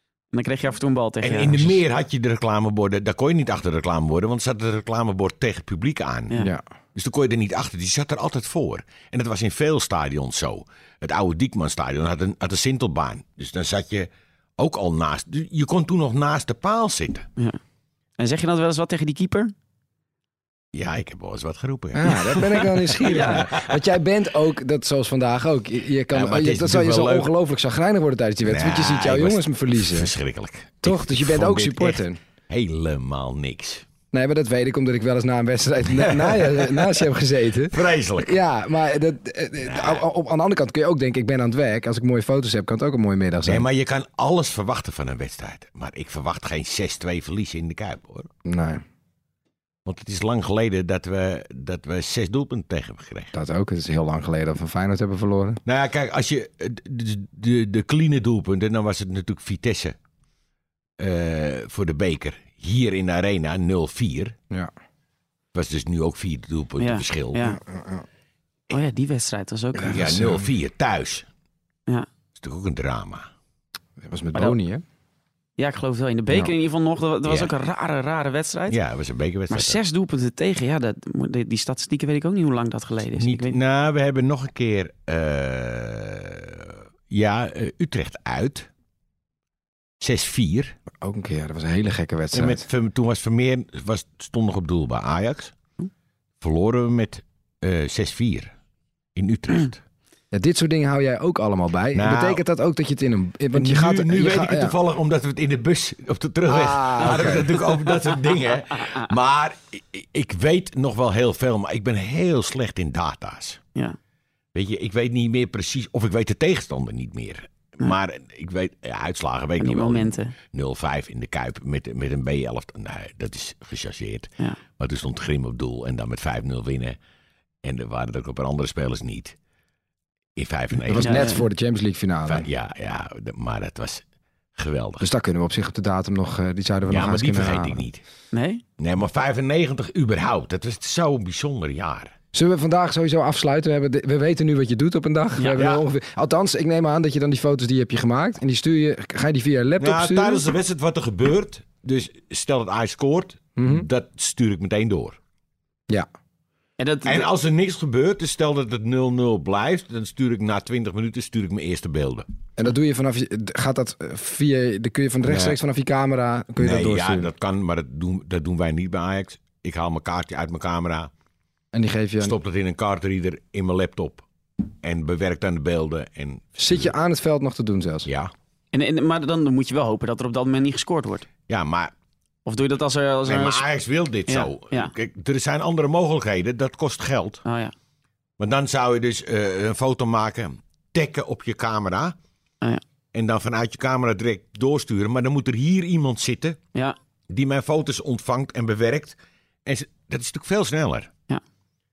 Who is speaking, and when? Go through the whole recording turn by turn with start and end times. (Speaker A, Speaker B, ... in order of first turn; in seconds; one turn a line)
Speaker A: 0.3-1.8
Speaker B: 1.2-6.4
Speaker B: 7.0-17.3
Speaker A: 18.2-19.5
Speaker B: 20.7-23.8
Speaker C: 22.0-30.1
Speaker A: 23.1-23.4
Speaker B: 26.1-27.3
Speaker B: 28.5-33.9
Speaker C: 30.8-32.2
Speaker C: 34.1-43.6
Speaker B: 35.9-37.1
Speaker B: 37.7-38.4
Speaker B: 39.6-40.0
Speaker B: 43.5-48.3
Speaker C: 48.5-48.8
Speaker B: 49.9-53.3
Speaker C: 53.3-55.6
Speaker B: 55.6-60.0
Speaker B: 61.0-64.3
Speaker B: 65.5-67.5
Speaker A: 66.8-67.6
Speaker C: 67.5-68.0
Speaker A: 68.7-70.1
Speaker C: 69.8-70.5
Speaker B: 69.8-71.3
Speaker B: 72.3-73.3
Speaker C: 74.0-74.8
Speaker A: 75.6-78.8
Speaker B: 77.2-77.5
Speaker B: 78.7-79.8
Speaker A: 79.5-83.6
Speaker B: 83.2-88.7
Speaker B: 90.0-90.8
Speaker C: 91.0-92.7
Speaker B: 92.3-95.5
Speaker B: 96.4-98.5
Speaker B: 99.2-99.8
Speaker C: 100.3-104.8
Speaker B: 102.0-102.4
Speaker B: 103.5-113.6
Speaker C: 106.5-107.5
Speaker B: 114.5-127.0
Speaker A: 119.6-120.3
Speaker B: 127.6-129.4
Speaker B: 130.4-131.4
Speaker C: 130.9-132.4
Speaker A: 131.0-131.4
Speaker B: 132.3-135.1
Speaker C: 135.0-137.8
Speaker B: 136.9-138.0
Speaker A: 138.3-138.6
Speaker B: 138.8-142.1
Speaker C: 142.3-150.4
Speaker B: 145.6-145.8
Speaker B: 149.8-155.2
Speaker C: 153.6-153.9
Speaker A: 156.8-157.3
Speaker B: 157.1-162.3
Speaker C: 162.6-167.3
Speaker B: 165.2-165.6
Speaker B: 166.6-171.1
Speaker C: 171.7-172.3
Speaker B: 172.2-174.3
Speaker B: 174.8-176.9
Speaker C: 176.6-178.1
Speaker B: 178.1-178.3
Speaker A: 178.7-181.3
Speaker B: 181.5-181.9
Speaker A: 182.5-183.7
Speaker B: 183.2-187.4
Speaker A: 184.3-184.9
Speaker A: 187.5-187.7
Speaker B: 188.4-192.2
Speaker B: 193.1-196.6
Speaker B: 197.3-201.1